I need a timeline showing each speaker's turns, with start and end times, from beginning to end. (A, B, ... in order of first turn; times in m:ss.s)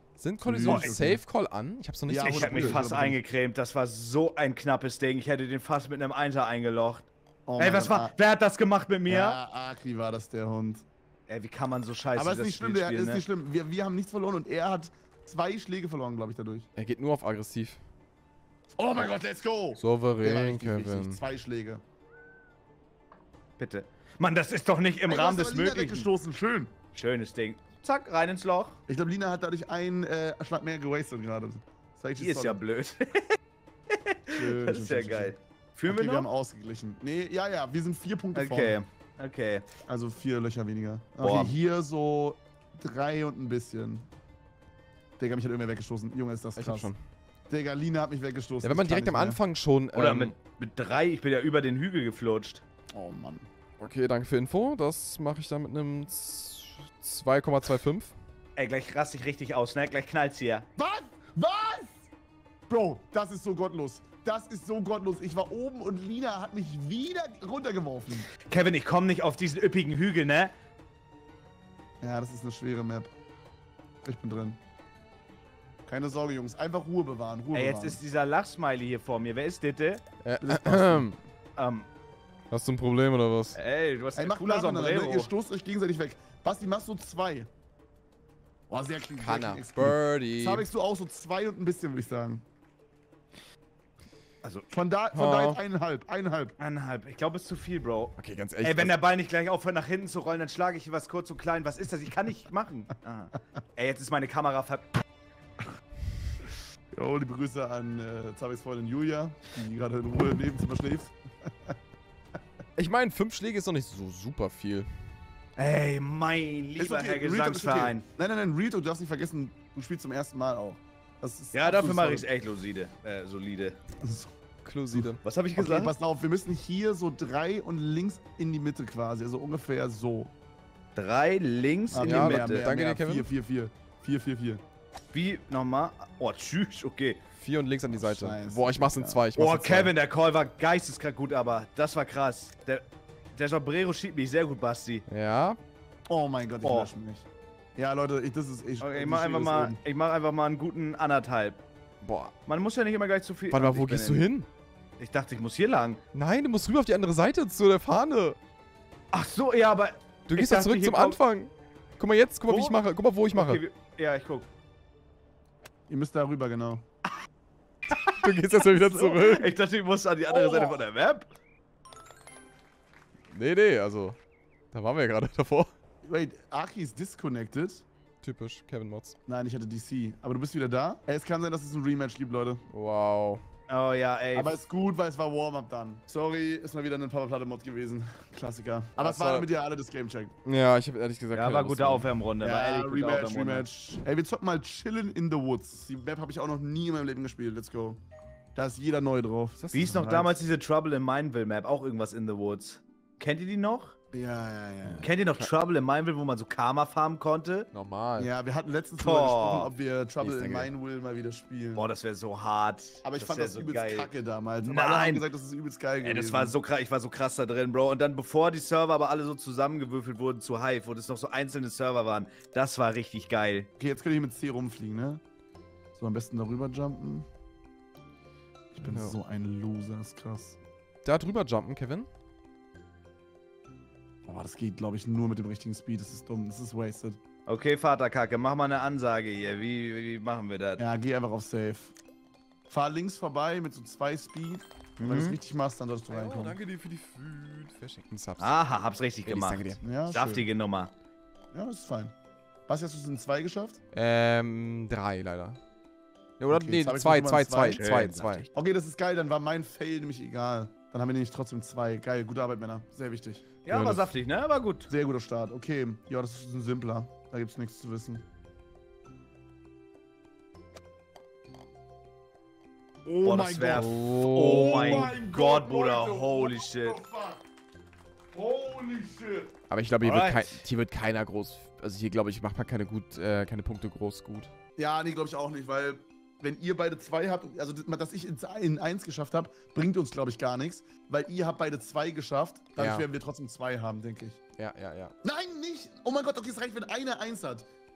0:00.2-0:02.8 A
0:00.4-0:01.2 B
0:00.7-0:00.9 C
0:02.1-0:03.2 B
0:02.2-0:07.1 C
0:07.5-0:08.1 B
0:07.6-0:09.4 C
0:09.1-0:10.9 B
0:11.3-0:13.2 C
0:12.2-0:16.7 B
0:16.8-0:17.8 A
0:18.8-0:21.8 B
0:19.8-0:21.2 A
0:23.6-0:26.1 C
0:25.1-0:26.7 B
0:27.0-0:28.8 C
0:28.9-0:32.6 B
0:32.2-0:33.4 C
0:33.9-0:36.3 C
0:34.3-0:35.4 B
0:35.9-0:38.8 B
0:38.4-0:39.7 C
0:39.9-0:44.1 B
0:41.2-0:41.6 C
0:45.2-0:46.9 B
0:46.6-0:47.0 A
0:47.5-0:49.4 B
0:48.6-0:50.3 A
0:49.9-0:52.6 C
0:52.9-0:53.5 B
0:53.8-0:58.2 A
0:58.6-1:00.7 C
1:00.8-1:02.1 B
1:02.7-1:08.3 B
1:08.4-1:10.5 C
1:12.0-1:13.1 B
1:14.0-1:14.6 B
1:15.9-1:18.0 B
1:17.5-1:20.0 C
1:20.2-1:21.2 A
1:20.4-1:21.1 B
1:21.6-1:21.9 C
1:22.5-1:23.6 A
1:23.6-1:25.3 C
1:24.2-1:27.5 B
1:28.7-1:32.4 B
1:29.2-1:30.7 A
1:34.7-1:36.6 B
1:35.1-1:35.6 A
1:36.6-1:44.9 C
1:38.2-1:39.0 A
1:46.9-1:51.7 B
1:52.8-1:55.1 A
1:55.6-1:58.0 C
1:56.8-2:02.3 B
2:01.5-2:03.8 C
2:04.0-2:04.3 B
2:04.6-2:05.2 A
2:04.9-2:10.3 B
2:05.2-2:05.9 C
2:11.0-2:12.7 C
2:11.9-2:14.6 B
2:12.0-2:13.3 A
2:15.1-2:17.2 C
2:17.4-2:19.9 A
2:17.9-2:19.2 B
2:19.4-2:25.0 C
2:25.1-2:25.6 A
2:26.1-2:29.8 B
2:26.6-2:26.9 C
2:28.8-2:31.6 C
2:32.0-2:32.4 A
2:32.5-2:34.2 C
2:33.5-2:34.5 A
2:35.0-2:36.0 C
2:36.1-2:38.4 A
2:39.1-2:41.2 C
2:40.3-2:43.6 A
2:42.5-2:42.8 C
2:43.3-2:44.5 C
2:45.9-2:46.8 B
2:48.0-2:49.5 A
2:48.9-2:49.3 B
2:49.1-2:51.3 C
2:50.3-2:50.8 B
2:53.3-2:54.2 A
2:54.7-2:55.7 A
2:56.0-2:57.8 B
2:58.2-2:59.2 A
2:59.3-3:02.6 B
3:02.7-3:03.4 A
3:03.7-3:04.6 C
3:04.3-3:10.4 B
3:09.0-3:09.5 A
3:10.4-3:12.1 A
3:11.3-3:13.7 C
3:12.4-3:18.0 B
3:18.6-3:20.4 B
3:19.6-3:20.1 A
3:19.7-3:24.0 C
3:24.1-3:25.1 B
3:25.0-3:27.7 C
3:27.7-3:28.3 A
3:28.2-3:31.9 B
3:29.0-3:29.7 C
3:30.2-3:30.7 A
3:31.8-3:34.1 C
3:33.0-3:36.6 B
3:34.6-3:35.3 C
3:36.0-3:43.7 C
3:43.8-3:45.2 B
3:46.0-3:47.3 B
3:48.7-3:50.6 B
3:48.8-3:49.2 A
3:51.0-3:52.1 A
3:54.2-3:57.2 B
3:57.5-4:00.8 C
4:00.8-4:02.0 B
4:02.7-4:06.6 B
4:05.0-4:05.4 C
4:06.1-4:08.6 A
4:08.4-4:10.9 C
4:09.2-4:09.8 A
4:09.8-4:10.5 B
4:11.5-4:12.2 B
4:12.7-4:13.8 B
4:13.9-4:15.6 A
4:16.4-4:18.5 A
4:16.5-4:17.8 B
4:17.8-4:18.5 C
4:18.5-4:23.4 B
4:23.6-4:24.9 C
4:23.7-4:24.1 A
4:24.9-4:28.2 B
4:33.0-4:37.4 B
4:33.2-4:37.0 C
4:33.7-4:35.1 A
4:38.3-4:39.5 B
4:39.7-4:44.5 A
4:40.0-4:40.6 C
4:44.8-4:54.4 B
4:52.8-4:53.1 A
4:54.6-4:55.1 A
4:55.2-4:57.7 B